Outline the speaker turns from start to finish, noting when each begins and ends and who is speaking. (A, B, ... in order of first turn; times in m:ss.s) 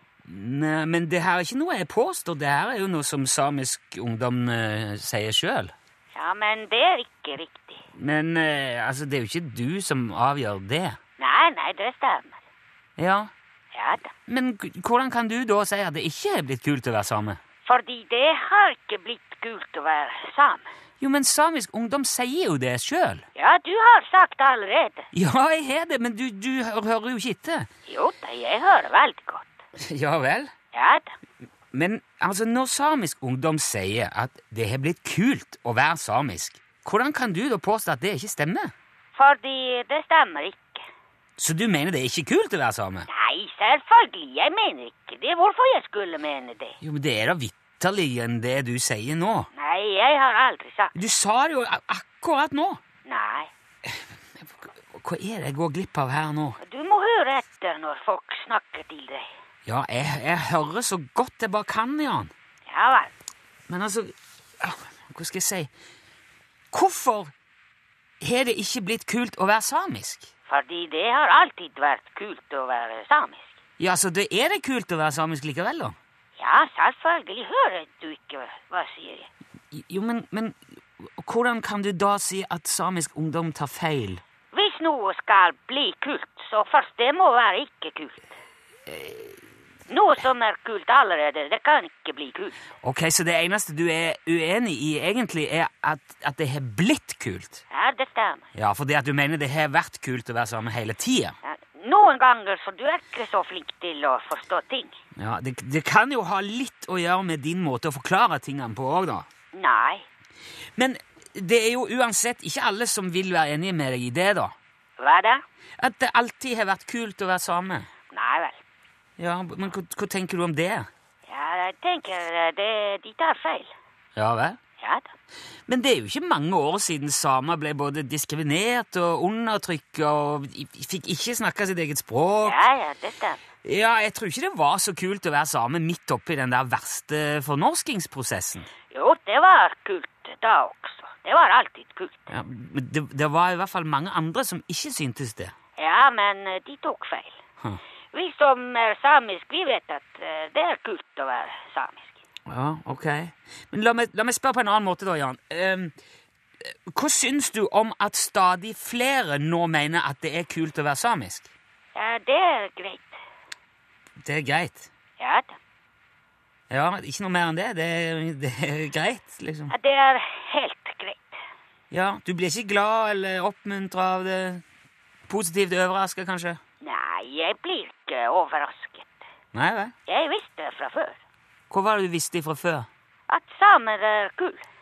0:00.2-0:05.7 A
0:06.1-0:07.8 B
0:08.0-0:11.0 A
0:11.2-0:12.4 B
0:13.0-0:13.3 A
0:13.7-0:14.1 B
0:14.3-0:17.4 A
0:17.6-0:20.7 B
0:21.0-0:23.2 A
0:23.3-0:25.1 B
0:25.1-0:27.7 A
0:27.9-0:29.4 B
0:29.8-0:30.5 A
0:30.7-0:31.1 B
0:31.7-0:38.7 A
0:39.2-0:40.8 B
0:41.4-0:43.1 A
0:43.1-0:46.8 B
0:46.8-0:49.5 A
0:49.6-0:50.9 B
0:50.9-0:52.8 A
0:53.0-0:53.5 B
0:53.8-0:56.6 A
0:56.6-0:59.3 B
0:59.6-1:02.3 A
1:02.7-1:03.1 B
1:03.7-1:05.7 A
1:06.7-1:07.3 A
1:08.2-1:10.3 A
1:10.5-1:13.5 B
1:13.8-1:16.0 A
1:16.4-1:19.3 B
1:19.7-1:24.2 A
1:24.5-1:28.3 B
1:28.9-1:29.3 A
1:29.9-1:32.6 B
1:32.8-1:37.6 A
1:37.7-1:38.5 B
1:38.5-1:41.3 A
1:41.4-1:44.9 B
1:45.2-1:49.3 A
1:49.5-1:50.0 B
1:50.8-1:54.5 A
1:55.0-1:55.4 B
1:55.8-1:57.9 A
1:58.1-1:58.6 B
1:59.2-2:00.9 A
2:01.3-2:03.7 B
2:04.2-2:04.6 A
2:04.8-2:05.1 B
2:05.7-2:12.6 A
2:12.4-2:13.4 B
2:13.6-2:18.7 A
2:18.9-2:22.3 B
2:22.3-2:25.5 A
2:25.8-2:27.4 B
2:28.1-2:32.2 B
2:32.5-2:35.9 A
2:36.6-2:41.5 A
2:41.9-2:43.2 B
2:44.2-2:44.9 A
2:45.2-2:45.5 B
2:46.7-2:49.7 A
2:49.7-2:51.3 B
2:51.9-2:54.6 A
2:55.3-2:56.6 A
2:56.8-2:59.2 B
2:59.5-2:59.9 A
3:00.1-3:01.2 B
3:01.7-3:02.9 A
3:03.3-3:04.6 B